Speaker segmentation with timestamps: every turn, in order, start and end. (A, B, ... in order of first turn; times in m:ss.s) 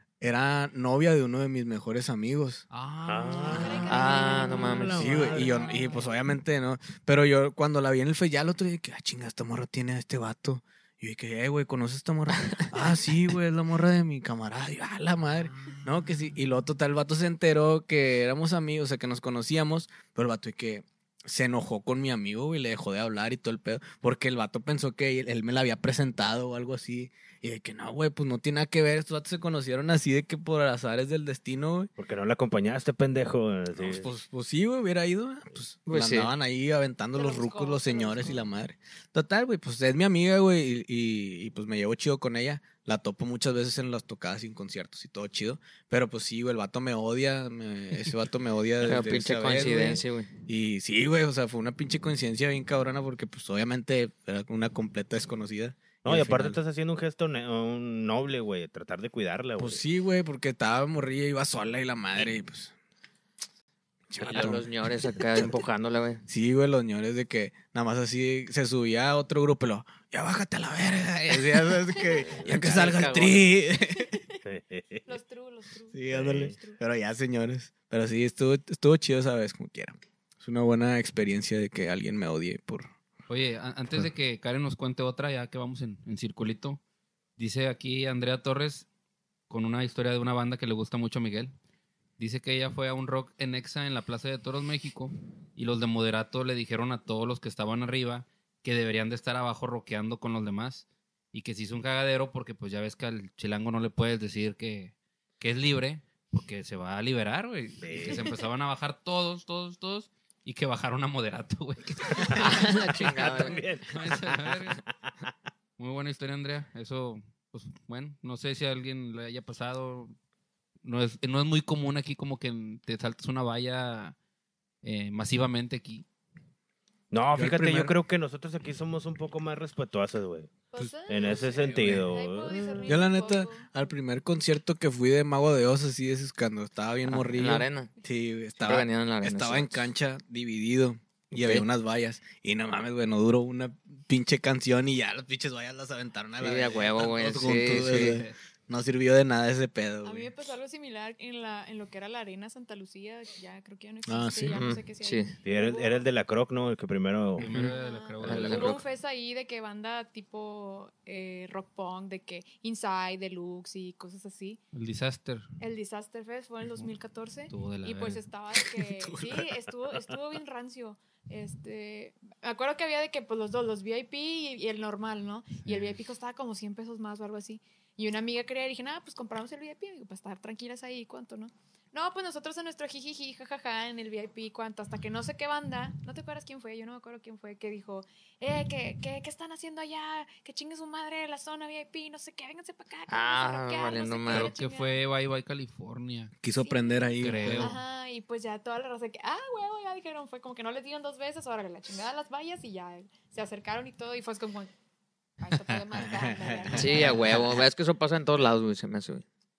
0:00.2-0:02.6 A
0:02.7-0:04.8 B
0:03.1-0:05.7 C
0:03.4-0:06.1 D
0:03.9-0:05.1 E
0:04.9-0:31.9 A
0:12.3-0:12.7 E
0:32.0-0:34.1 C
0:33.8-0:56.6 A
0:35.9-0:36.3 E
0:37.2-0:38.5 D
0:48.8-0:50.3 E
0:56.0-0:59.8 C
0:59.6-1:02.7 A
1:04.1-1:05.5 A
1:04.2-1:06.2 E
1:06.3-1:14.2 A
1:11.7-1:12.3 D
1:12.2-1:13.3 C
1:12.5-1:13.5 E
1:13.7-1:14.4 D
1:14.4-1:15.1 C
1:15.1-1:16.8 D
1:15.9-1:22.9 A
1:16.1-1:16.6 C
1:23.3-1:26.8 B
1:27.4-1:28.9 B
1:29.5-1:31.5 B
1:32.2-1:54.8 B
1:47.8-1:48.3 C
1:48.0-1:48.3 D
1:52.3-1:54.5 C
1:52.4-1:53.6 E
1:55.8-2:00.1 B
2:00.8-2:04.2 B
2:04.8-2:06.0 B
2:07.1-2:10.5 C
2:07.4-2:07.9 A
2:10.7-2:13.9 D
2:10.8-2:12.1 A
2:11.1-2:12.8 C
2:12.8-2:30.3 A
2:17.1-2:17.9 E
2:18.6-2:19.9 E
2:21.3-2:21.7 E
2:26.4-2:28.2 E
2:27.7-2:28.4 B
2:30.0-2:36.0 D
2:34.1-2:34.6 A
2:34.5-2:35.4 E
2:35.4-2:37.5 C
2:37.4-2:38.8 B
2:37.5-2:44.6 D
2:38.2-2:38.8 E
2:44.7-2:45.5 B
2:45.6-3:15.0 D
2:47.5-2:48.2 B
2:48.6-2:49.5 A
3:13.1-3:14.5 E
3:14.3-3:16.3 B
3:16.4-3:17.8 A
3:16.6-3:24.7 D
3:17.2-3:17.8 B
3:25.4-3:27.4 D
3:25.9-3:27.6 A
3:26.7-3:29.2 E